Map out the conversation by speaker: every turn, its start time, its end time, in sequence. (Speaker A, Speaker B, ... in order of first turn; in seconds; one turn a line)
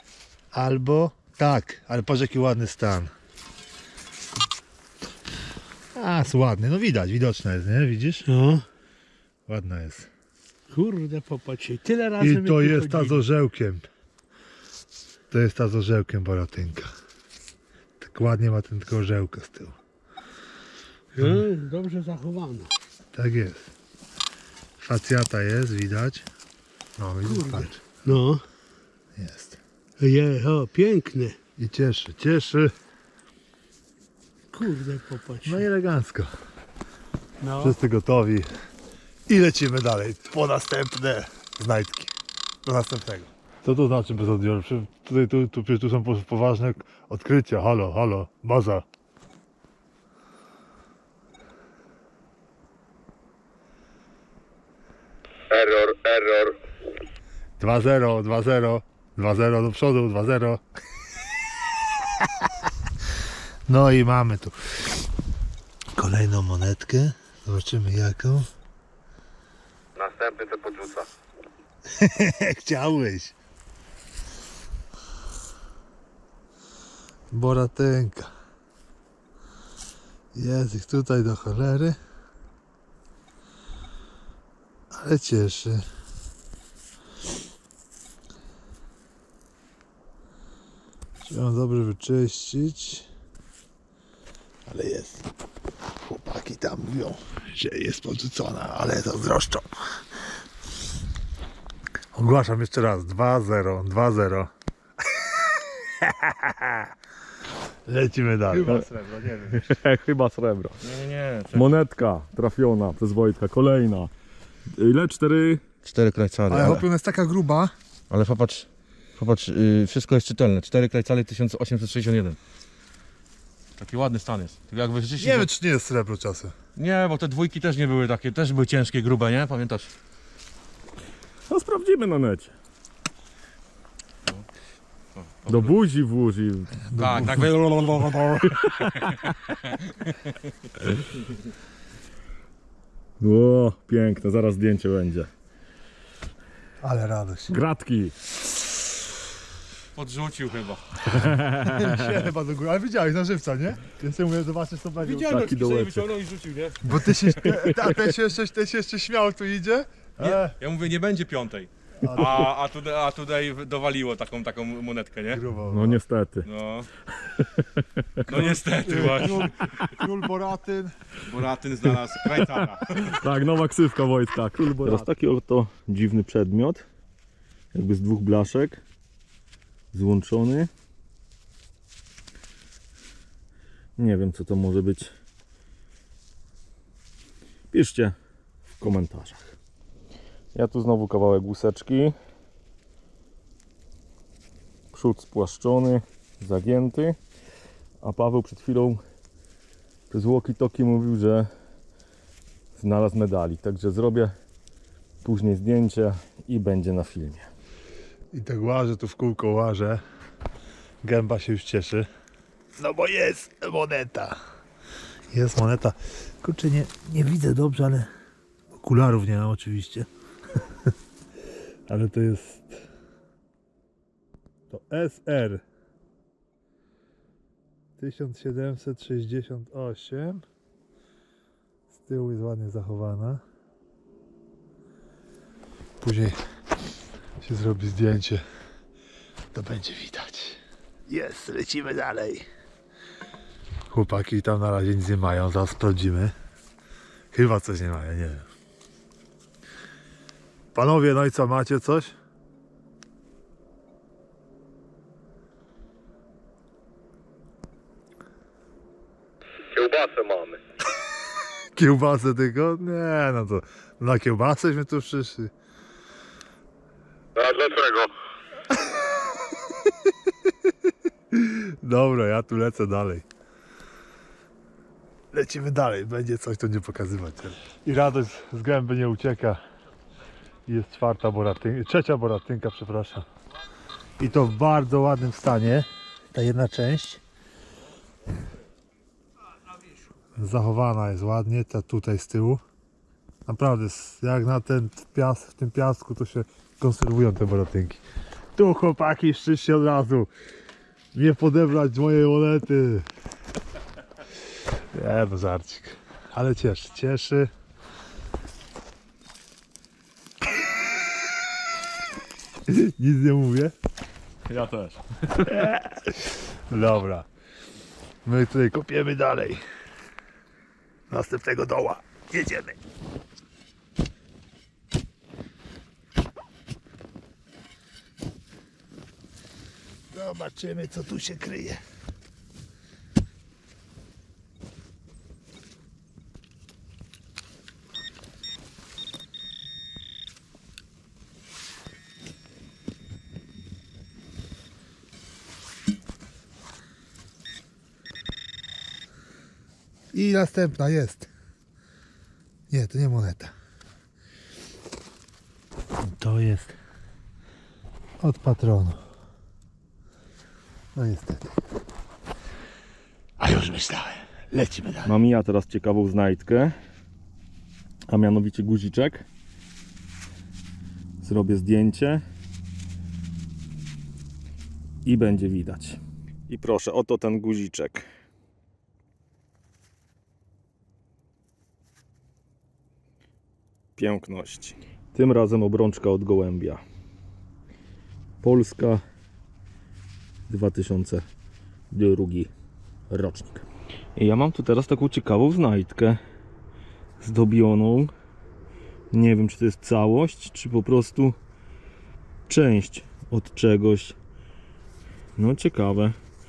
Speaker A: 0.5-3.1
Speaker A: 6.0-8.3
Speaker B: 8.4-8.6
Speaker A: 9.5-10.1
Speaker B: 10.7-13.2
Speaker A: 12.2-13.8
Speaker A: 15.3-16.9
Speaker A: 18.0-19.8
Speaker B: 21.1-22.7
Speaker A: 23.1-23.7
Speaker A: 24.8-26.3
Speaker A: 27.0-27.8
Speaker B: 28.1-28.4
Speaker A: 29.2-29.6
Speaker B: 30.0-31.4
Speaker A: 31.6-32.7
Speaker B: 34.5-35.5
Speaker A: 35.5-36.3
Speaker B: 37.4-37.7
Speaker A: 37.6-38.5
Speaker A: 39.3-48.9
Speaker C: 55.5-56.5
Speaker A: 57.6-60.6
Speaker A: 63.7-64.5
Speaker A: 65.9-68.5
Speaker C: 70.0-71.1
Speaker A: 71.9-73.3
Speaker A: 77.3-78.3
Speaker A: 80.3-82.0
Speaker A: 84.9-85.8
Speaker A: 91.2-93.1
Speaker A: 94.7-95.3
Speaker A: 96.1-99.7
Speaker A: 102.1-104.5
Speaker A: 105.4-106.9
Speaker A: 107.9-109.7
Speaker D: 108.5-108.9
Speaker D: 109.5-110.8
Speaker E: 110.8-111.8
Speaker D: 111.5-114.1
Speaker D: 114.8-115.6
Speaker E: 115.8-116.9
Speaker A: 116.5-117.7
Speaker E: 118.1-118.7
Speaker E: 119.2-122.4
Speaker E: 123.8-125.5
Speaker A: 125.2-126.5
Speaker E: 126.8-129.9
Speaker D: 131.5-132.5
Speaker E: 135.2-135.7
Speaker D: 135.5-136.8
Speaker A: 136.9-138.4
Speaker E: 137.0-140.1
Speaker D: 138.8-139.3
Speaker D: 143.2-145.3
Speaker A: 146.8-147.6
Speaker D: 147.5-148.2
Speaker E: 149.9-151.0
Speaker D: 151.1-152.1
Speaker A: 151.6-155.4
Speaker E: 155.0-156.9
Speaker D: 155.3-156.1
Speaker A: 156.8-160.6
Speaker D: 157.5-158.0
Speaker E: 160.2-165.4
Speaker A: 162.0-162.5
Speaker A: 165.3-166.0
Speaker D: 165.7-166.5
Speaker E: 166.4-166.9
Speaker D: 167.3-168.2
Speaker E: 168.3-169.8
Speaker A: 168.3-170.9
Speaker E: 171.2-173.0
Speaker D: 172.8-176.8
Speaker A: 174.8-175.1
Speaker D: 177.7-178.8
Speaker D: 179.9-180.7
Speaker D: 184.0-185.1
Speaker D: 187.7-188.2
Speaker D: 188.8-189.6
Speaker D: 190.5-192.2
Speaker D: 194.9-197.2
Speaker D: 198.0-199.0
Speaker D: 200.1-201.5
Speaker D: 202.8-204.3
Speaker D: 205.2-207.5
Speaker A: 208.3-210.0
Speaker A: 211.0-212.1
Speaker A: 212.8-214.4
Speaker A: 215.3-218.1
Speaker A: 218.7-220.1
Speaker A: 221.9-222.8
Speaker A: 224.7-225.6
Speaker A: 228.0-230.4
Speaker A: 231.9-233.4
Speaker A: 236.0-236.4
Speaker A: 237.4-238.4
Speaker A: 239.5-242.5
Speaker A: 243.9-246.3
Speaker A: 247.3-248.5
Speaker A: 250.7-252.1
Speaker C: 259.7-260.6
Speaker A: 261.8-265.5
Speaker C: 267.4-268.1
Speaker A: 271.3-273.2
Speaker A: 275.3-279.6
Speaker A: 280.7-283.2
Speaker A: 284.2-287.2
Speaker A: 290.4-292.6
Speaker A: 293.5-298.0
Speaker A: 298.6-300.3
Speaker A: 301.1-303.1
Speaker A: 304.9-307.5
Speaker A: 312.7-313.7
Speaker D: 314.5-315.5
Speaker A: 315.5-317.3
Speaker A: 318.2-319.6
Speaker A: 321.1-322.8
Speaker A: 330.1-331.8
Speaker A: 350.1-351.3
Speaker A: 352.7-353.5
Speaker A: 356.1-356.8
Speaker A: 358.2-359.0
Speaker A: 360.9-361.5
Speaker A: 363.4-365.1
Speaker D: 365.1-366.8
Speaker D: 368.1-369.3
Speaker D: 371.2-372.2
Speaker D: 375.1-378.1
Speaker D: 384.0-386.8
Speaker D: 388.4-389.0
Speaker D: 390.5-391.3
Speaker D: 391.9-392.5
Speaker D: 393.1-396.2
Speaker D: 397.2-398.1
Speaker D: 399.1-401.4
Speaker D: 402.5-404.2
Speaker D: 405.4-406.2